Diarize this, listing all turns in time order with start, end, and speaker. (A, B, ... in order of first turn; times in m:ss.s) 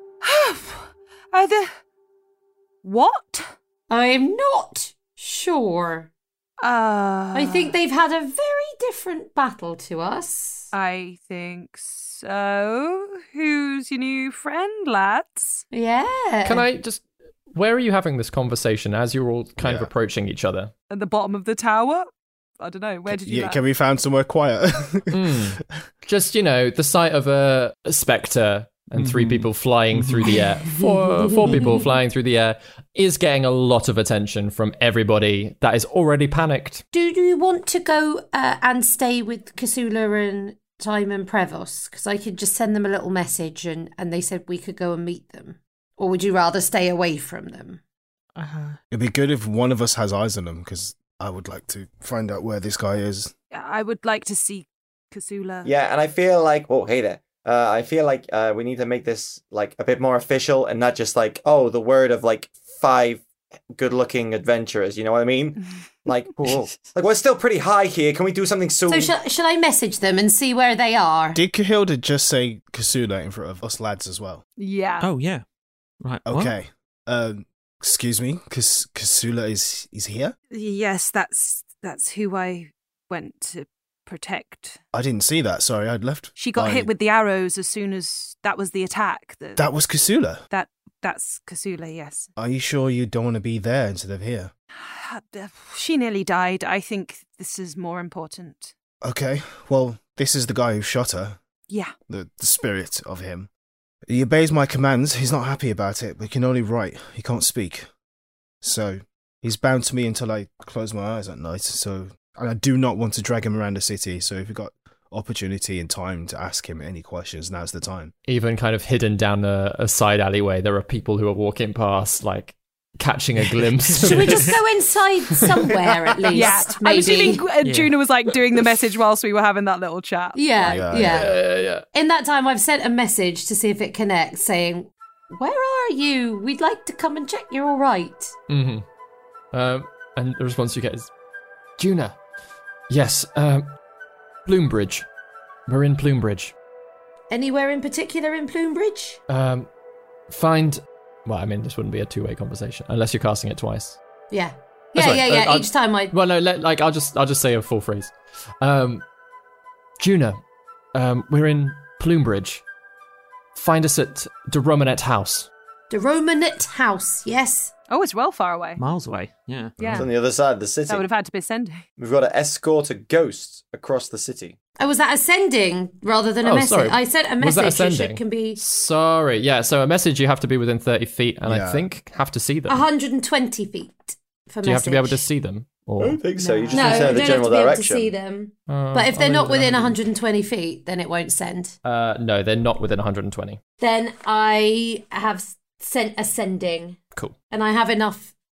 0:00.2-0:01.7 A
0:02.8-0:03.5 A
0:03.9-0:06.1 B
0:06.6-0:07.8 A
0:07.3-0:10.7 B
0:10.7-0:15.6 A
0:15.7-0:16.6 B
0:16.4-0:20.7 C
0:19.6-0:19.9 D
0:20.9-0:23.6 A
0:23.1-0:25.8 D
0:25.1-0:36.8 C
0:28.9-0:30.4 E
0:30.8-0:31.8 B
0:36.9-0:47.8 B
0:48.4-0:48.8 E
0:48.9-0:53.3 D
0:53.5-0:55.7 A
0:55.6-1:09.1 F
1:08.9-1:11.4 B
1:11.3-1:14.4 D
1:14.6-1:15.1 A
1:15.0-1:15.4 E
1:16.0-1:16.5 E
1:16.2-1:20.3 D
1:20.5-1:24.8 A
1:24.9-1:26.9 D
1:26.4-1:29.6 A
1:29.6-1:30.4 D
1:30.5-1:32.3 A
1:32.4-1:34.5 D
1:34.7-1:38.7 A
1:39.0-1:41.4 D
1:41.7-1:41.9 A
1:42.1-1:43.5 D
1:44.1-1:47.9 D
1:48.6-1:58.1 D
1:58.3-2:04.6 C
2:03.5-2:04.5 E
2:04.0-2:07.4 B
2:06.3-2:10.5 A
2:07.6-2:08.0 E
2:10.3-2:18.3 B
2:10.6-2:11.4 D
2:11.0-2:11.8 C
2:18.5-2:18.8 C
2:19.5-2:21.1 C
2:21.8-2:22.2 C
2:22.9-2:23.7 C
2:24.4-2:25.0 C
2:25.7-2:26.5 C
2:27.3-2:29.2 B
2:29.3-2:29.7 C
2:30.3-2:34.0 C
2:34.3-2:36.1 B
2:35.0-2:39.0 C
2:40.0-2:40.4 C
2:40.9-2:42.6 C
2:43.5-2:45.5 C
2:45.9-2:47.7 B
2:47.9-2:48.8 A
2:48.8-2:49.8 E
2:49.8-2:50.1 A
2:49.8-2:50.1 D
2:50.0-2:51.1 F
2:50.9-2:51.8 A
2:52.0-2:54.6 F
2:54.8-2:58.6 B
2:56.4-3:02.8 C
3:01.4-3:01.8 D
3:02.7-3:05.2 B
3:04.6-3:06.2 C
3:06.0-3:08.1 F
3:06.4-3:11.8 B
3:06.7-3:07.0 A
3:08.7-3:10.0 C
3:11.8-3:13.6 C
3:13.8-3:17.0 B
3:17.5-3:18.3 B